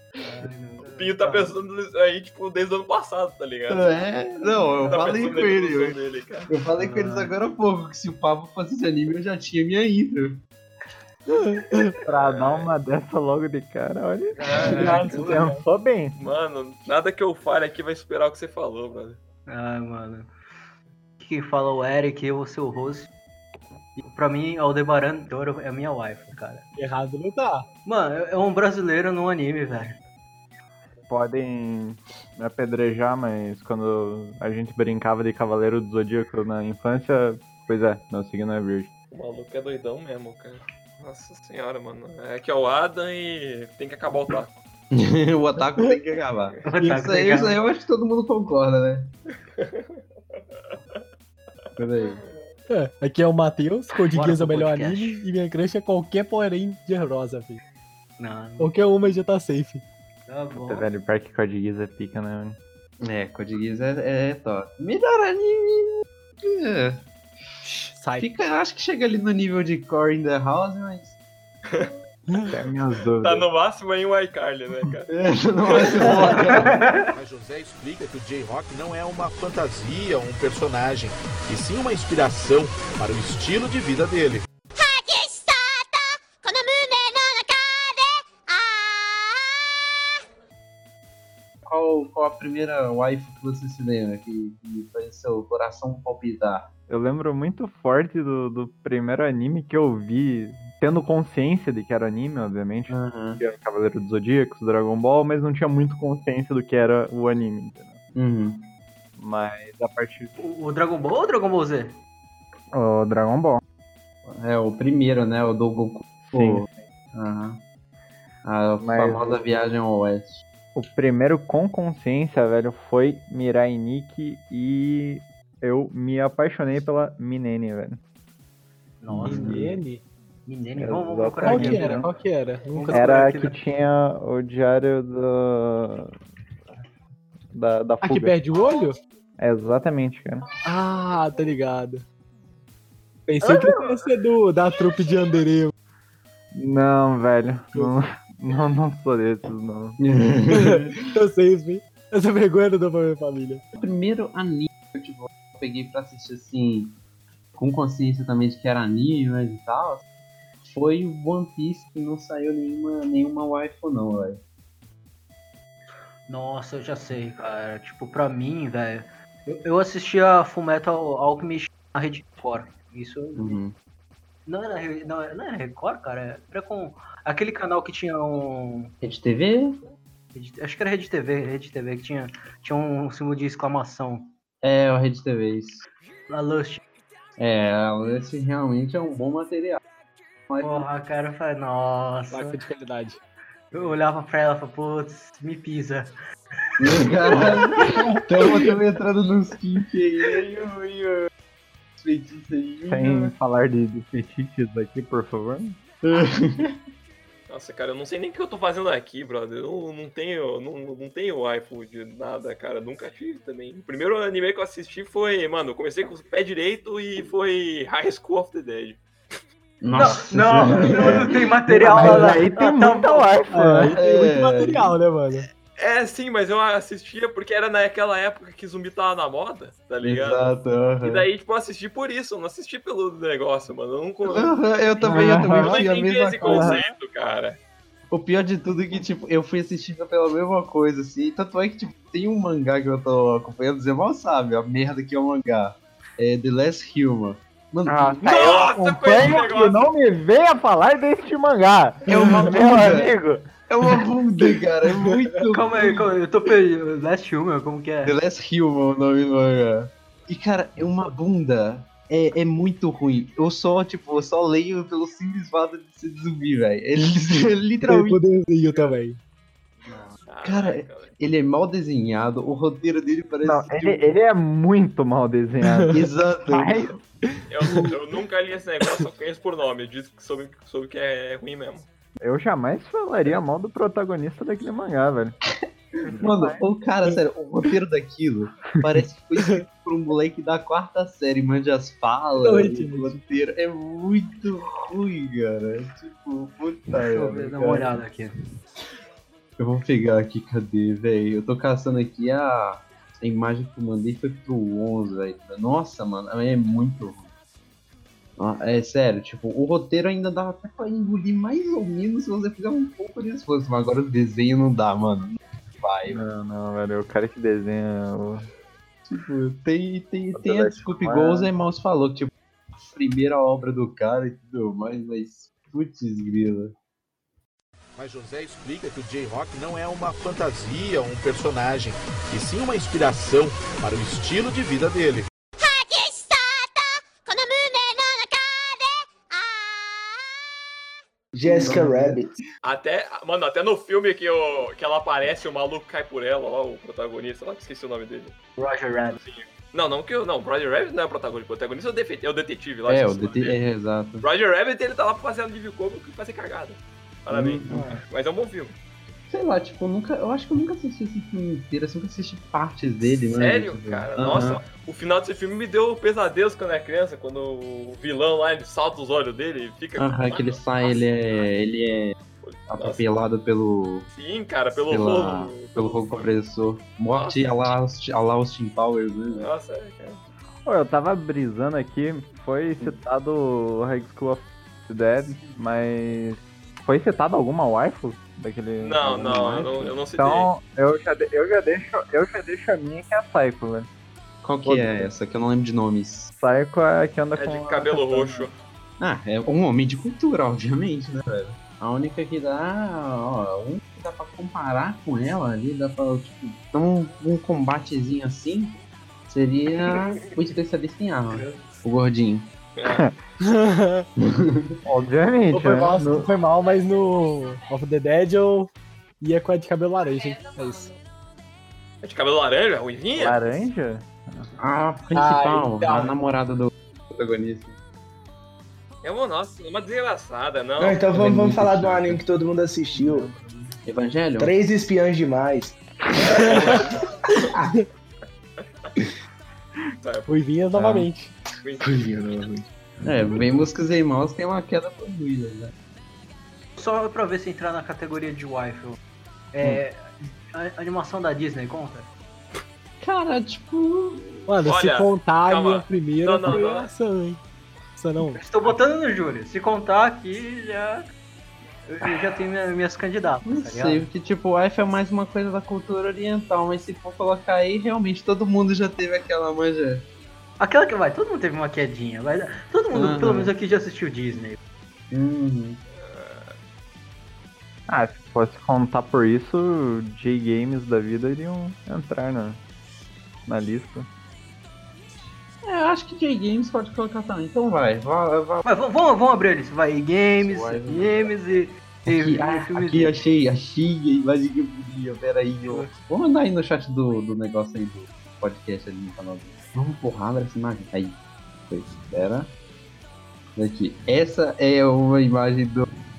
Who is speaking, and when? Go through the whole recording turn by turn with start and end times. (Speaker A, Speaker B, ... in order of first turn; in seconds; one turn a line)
Speaker A: 0.2-1.5
Speaker B: 0.9-3.9
Speaker C: 3.7-10.4
Speaker B: 4.8-6.5
Speaker A: 6.8-7.3
Speaker D: 11.3-11.9
Speaker E: 12.0-16.2
Speaker B: 12.2-12.7
Speaker A: 14.4-15.0
Speaker B: 14.4-15.6
Speaker D: 15.1-15.6
Speaker B: 16.2-19.2
Speaker A: 19.5-20.3
Speaker A: 21.2-23.1
Speaker A: 24.0-26.7
Speaker D: 26.7-27.6
Speaker A: 27.8-30.0
Speaker E: 31.1-38.9
Speaker B: 39.1-44.5
Speaker C: 44.9-49.1
Speaker A: 46.6-47.6
Speaker B: 49.5-50.0
Speaker C: 51.8-52.2
Speaker D: 52.7-57.6
Speaker A: 54.0-55.2
Speaker A: 58.2-58.7
Speaker D: 58.6-59.8
Speaker A: 60.3-60.9
Speaker E: 60.6-62.6
Speaker C: 63.0-67.1
Speaker D: 67.7-68.3
Speaker C: 68.2-71.2
Speaker E: 72.5-73.4
Speaker B: 73.2-75.1
Speaker C: 75.1-76.7
Speaker B: 75.7-76.7
Speaker A: 76.6-77.1
Speaker F: 76.6-84.5
Speaker G: 84.8-89.1
Speaker C: 91.6-96.7
Speaker E: 96.9-108.0
Speaker C: 102.9-103.4
Speaker C: 108.1-108.7
Speaker E: 109.2-110.3
Speaker A: 110.4-112.0
Speaker E: 112.7-113.6
Speaker C: 114.2-117.6
Speaker E: 116.3-116.7
Speaker C: 118.4-120.4
Speaker E: 118.8-119.4
Speaker E: 120.7-128.0
Speaker A: 129.0-129.4
Speaker C: 129.1-129.7
Speaker D: 129.2-130.0
Speaker E: 129.3-129.8
Speaker A: 130.4-132.1
Speaker E: 130.8-132.2
Speaker D: 131.4-133.5
Speaker A: 132.7-133.6
Speaker E: 132.9-136.1
Speaker E: 137.5-138.3
Speaker D: 138.0-138.9
Speaker E: 139.4-140.5
Speaker D: 140.6-142.0
Speaker D: 143.3-145.7
Speaker E: 143.4-144.0
Speaker E: 146.5-150.0
Speaker C: 150.0-151.0
Speaker D: 150.5-153.6
Speaker C: 153.8-157.0
Speaker C: 157.5-160.1
Speaker C: 160.7-164.4
Speaker A: 166.3-173.6
Speaker C: 173.3-173.7
Speaker A: 174.5-178.9
Speaker C: 179.0-179.8
Speaker A: 180.3-184.3
Speaker C: 184.6-185.8
Speaker A: 186.3-186.8
Speaker C: 187.4-189.8
Speaker C: 190.5-190.9
Speaker A: 190.6-192.6
Speaker D: 192.3-193.2
Speaker A: 193.7-196.2
Speaker C: 196.8-201.3
Speaker A: 196.8-197.3
Speaker C: 202.0-203.3
Speaker E: 202.9-205.8
Speaker C: 206.0-206.8
Speaker B: 207.5-219.0
Speaker C: 219.8-222.3
Speaker A: 219.9-223.5
Speaker E: 221.8-223.9
Speaker D: 223.5-225.5
Speaker C: 223.9-225.0
Speaker B: 225.8-237.6
Speaker C: 230.0-231.2
Speaker C: 234.2-236.8
Speaker E: 235.0-235.9
Speaker E: 236.4-236.8
Speaker C: 238.1-248.3
Speaker E: 247.8-253.5
Speaker B: 248.2-249.9
Speaker C: 252.1-253.2
Speaker C: 253.7-256.1
Speaker D: 254.9-255.4
Speaker A: 255.5-258.1
Speaker C: 258.0-268.2
Speaker D: 267.8-269.2
Speaker C: 269.9-274.1
Speaker B: 270.3-271.1
Speaker E: 273.4-277.0
Speaker D: 275.6-276.0
Speaker C: 275.9-276.8
Speaker D: 277.3-277.9
Speaker B: 277.5-281.9
Speaker E: 282.2-285.3
Speaker C: 285.6-298.0
Speaker E: 286.1-286.6
Speaker D: 289.4-289.6
Speaker D: 292.4-293.1
Speaker A: 297.0-298.3
Speaker C: 299.6-307.3
Speaker C: 308.4-316.2
Speaker E: 316.1-318.5
Speaker C: 319.1-326.7
Speaker E: 320.3-321.5
Speaker F: 327.9-335.3
Speaker G: 335.6-339.0
Speaker H: 341.3-342.4
Speaker C: 341.4-342.2
Speaker B: 342.6-348.3
Speaker A: 348.6-349.2
Speaker B: 349.2-353.6
Speaker C: 352.9-354.2
Speaker B: 354.2-358.7
Speaker C: 357.3-357.8
Speaker C: 359.3-364.6
Speaker B: 363.3-371.5
Speaker C: 370.0-372.1
Speaker B: 372.4-373.1
Speaker C: 372.7-374.1
Speaker B: 374.1-376.0
Speaker C: 374.9-379.5
Speaker B: 377.1-377.6
Speaker B: 379.3-380.2
Speaker E: 380.6-393.9
Speaker B: 388.8-390.5
Speaker C: 389.1-390.0
Speaker C: 394.4-396.3
Speaker E: 394.6-395.1
Speaker E: 396.4-398.5
Speaker B: 397.4-398.5
Speaker C: 399.0-412.5
Speaker A: 411.3-411.6
Speaker B: 412.8-413.0
Speaker D: 413.4-414.0
Speaker C: 414.2-414.7
Speaker E: 414.8-416.3
Speaker D: 415.5-418.7
Speaker D: 419.2-421.0
Speaker B: 422.0-423.4
Speaker E: 423.1-424.5
Speaker C: 424.6-427.8
Speaker D: 425.1-426.1
Speaker B: 429.0-431.0
Speaker H: 430.8-433.3
Speaker C: 431.1-432.2
Speaker C: 432.9-434.5
Speaker H: 434.4-435.8
Speaker B: 436.2-437.5
Speaker D: 436.4-437.0
Speaker B: 440.0-440.3
Speaker D: 440.3-441.3
Speaker E: 440.7-441.1
Speaker B: 441.6-442.1
Speaker H: 441.8-442.6
Speaker C: 443.0-445.7
Speaker A: 446.8-449.0
Speaker A: 449.5-452.1
Speaker C: 453.0-454.5
Speaker D: 454.5-457.4
Speaker B: 454.6-456.9
Speaker D: 458.0-458.4
Speaker A: 458.2-461.0
Speaker A: 461.9-464.1
Speaker C: 462.0-462.4
Speaker C: 463.4-470.1
Speaker A: 470.6-474.6
Speaker C: 472.9-473.5
Speaker C: 475.1-475.8
Speaker B: 475.9-476.5
Speaker E: 477.9-482.6
Speaker E: 483.5-484.1
Speaker C: 485.6-488.6
Speaker A: 488.6-493.2
Speaker C: 490.3-491.4
Speaker C: 492.0-502.5
Speaker A: 495.7-495.9
Speaker C: 503.6-505.9